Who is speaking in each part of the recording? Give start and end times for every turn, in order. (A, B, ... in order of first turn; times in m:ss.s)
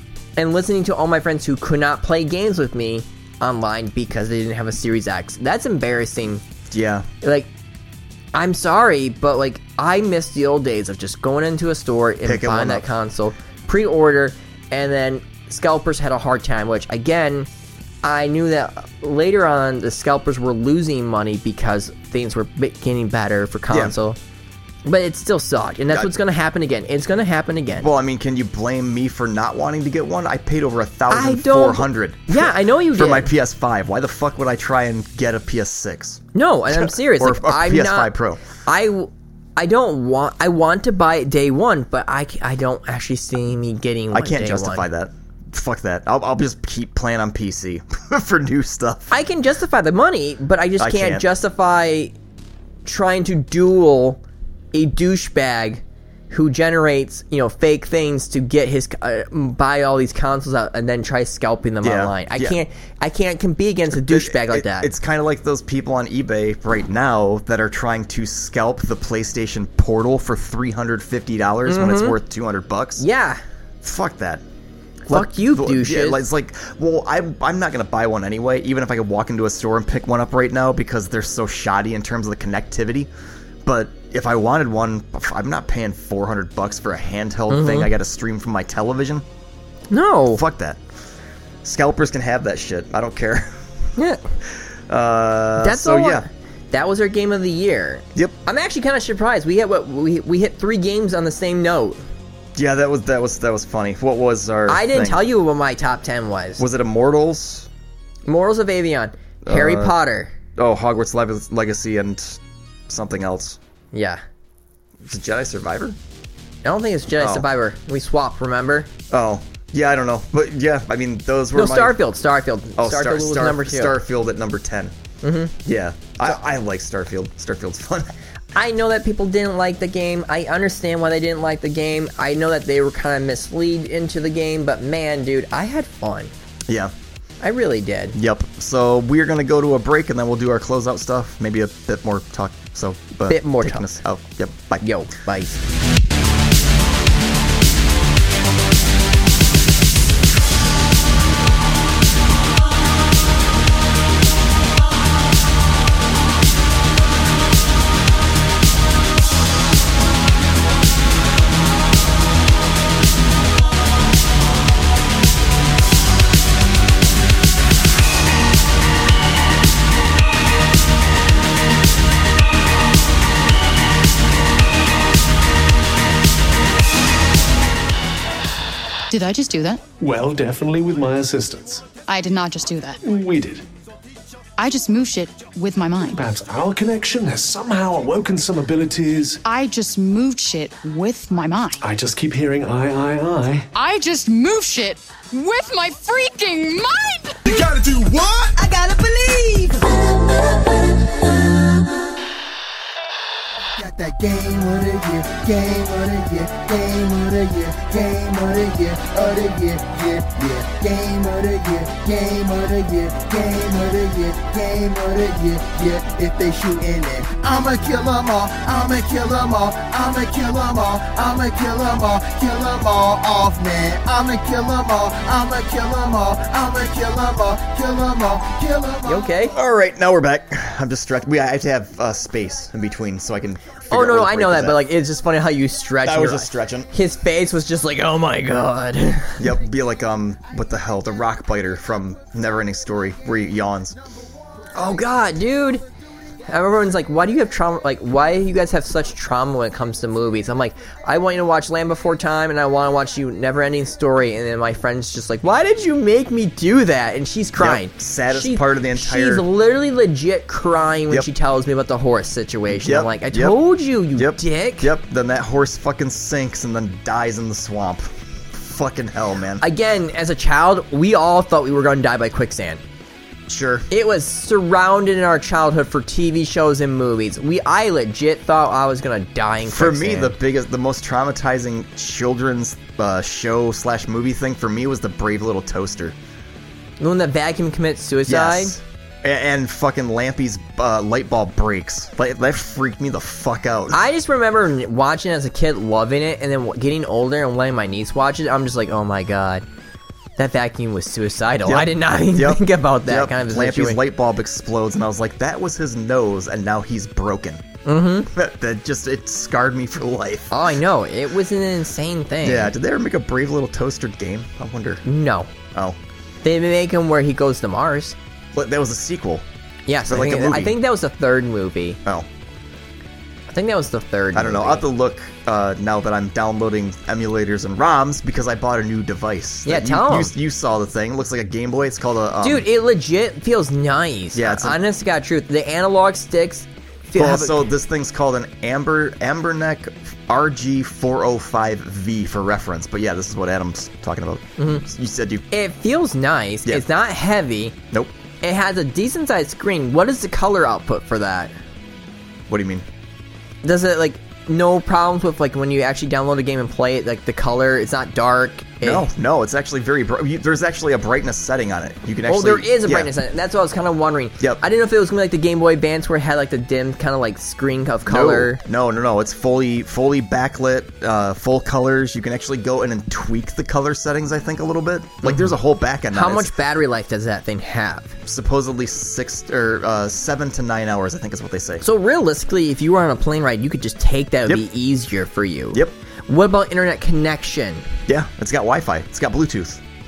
0:00.4-0:06.4 A
0:06.7-0:07.1 B
0:07.2-0:07.5 A
0:08.3-0:17.5 A
0:12.2-0:12.8 B
0:18.0-0:24.2 A
0:23.7-0:23.9 B
0:24.8-0:27.9 A
0:27.8-0:38.4 B
0:31.1-0:33.3 A
0:36.3-0:44.8 A
0:44.1-0:49.1 B
0:49.1-0:52.1 A
0:50.8-0:51.2 B
0:52.8-0:54.2 A
0:54.7-1:04.9 A
1:01.8-1:02.6 B
1:03.9-1:13.0 B
1:11.7-1:12.2 A
1:13.0-1:13.4 A
1:13.8-1:14.4 B
1:15.1-1:23.1 B
1:15.1-1:16.2 A
1:23.6-1:29.2 B
1:27.5-1:27.9 A
1:29.9-1:30.4 A
1:30.3-1:30.8 B
1:31.6-1:33.5 B
1:34.0-1:34.2 A
1:34.9-1:36.2 B
1:35.6-1:42.0 A
1:42.5-1:45.3 B
1:44.7-1:46.6 A
1:46.6-1:47.7 B
1:48.2-1:50.3 A
1:49.4-1:50.0 B
1:50.6-1:53.6 B
1:53.9-1:54.2 A
1:55.0-1:56.0 B
1:56.6-1:58.9 A
1:57.2-1:57.5 B
1:59.1-2:02.0 B
2:01.5-2:04.0 A
2:02.8-2:04.9 B
2:05.2-2:05.5 A
2:05.6-2:08.1 B
2:08.5-2:16.3 A
2:16.7-2:16.9 B
2:17.4-2:18.2 A
2:18.1-2:24.8 B
2:23.3-2:24.0 A
2:24.8-2:25.6 A
2:59.1-2:59.8 C
3:00.0-3:01.9 D
3:02.1-3:03.0 C
3:03.0-3:03.6 D
3:04.6-3:06.2 C
3:06.1-3:09.4 D
3:09.4-3:11.8 C
3:11.8-3:13.7 D
3:13.7-3:17.5 C
3:17.4-3:20.7 E
3:23.7-3:49.3 E
3:49.0-3:49.5 A
3:49.5-3:54.8 B
3:53.9-3:59.5 A
3:56.0-3:56.9 B
3:59.4-4:04.0 B
4:04.7-4:05.8 A
4:06.5-4:24.9 A
4:17.6-4:19.4 B
4:22.7-4:23.6 B
4:24.1-4:29.6 B
4:29.6-4:32.8 A
4:33.5-4:33.9 B
4:33.9-4:40.3 A
4:39.6-4:46.2 B
4:47.0-4:48.8 A
4:48.2-4:54.0 B
4:53.9-4:59.6 A
5:00.4-5:04.0 A
5:01.6-5:07.6 B
5:07.8-5:08.3 A
5:08.3-5:10.5 B
5:10.5-5:12.7 A
5:12.4-5:15.0 B
5:15.0-5:15.5 A
5:16.4-5:18.2 A
5:18.5-5:19.4 B
5:19.9-5:22.0 A
5:20.1-5:20.8 B
5:23.5-5:24.8 A
5:24.3-5:32.7 B
5:29.6-5:30.3 A
5:32.4-5:37.7 A
5:34.3-5:34.8 B
5:37.1-5:45.4 B
5:44.6-5:44.8 A
5:45.5-5:47.8 A
5:48.4-5:51.5 A
5:52.5-5:52.8 B
5:53.6-5:59.1 A
5:58.8-6:03.1 B
6:02.3-6:08.6 A
6:08.0-6:16.5 B
6:15.2-6:15.5 A
6:16.1-6:18.2 A
6:18.2-6:21.8 B
6:21.8-6:27.8 A
6:28.0-6:29.8 B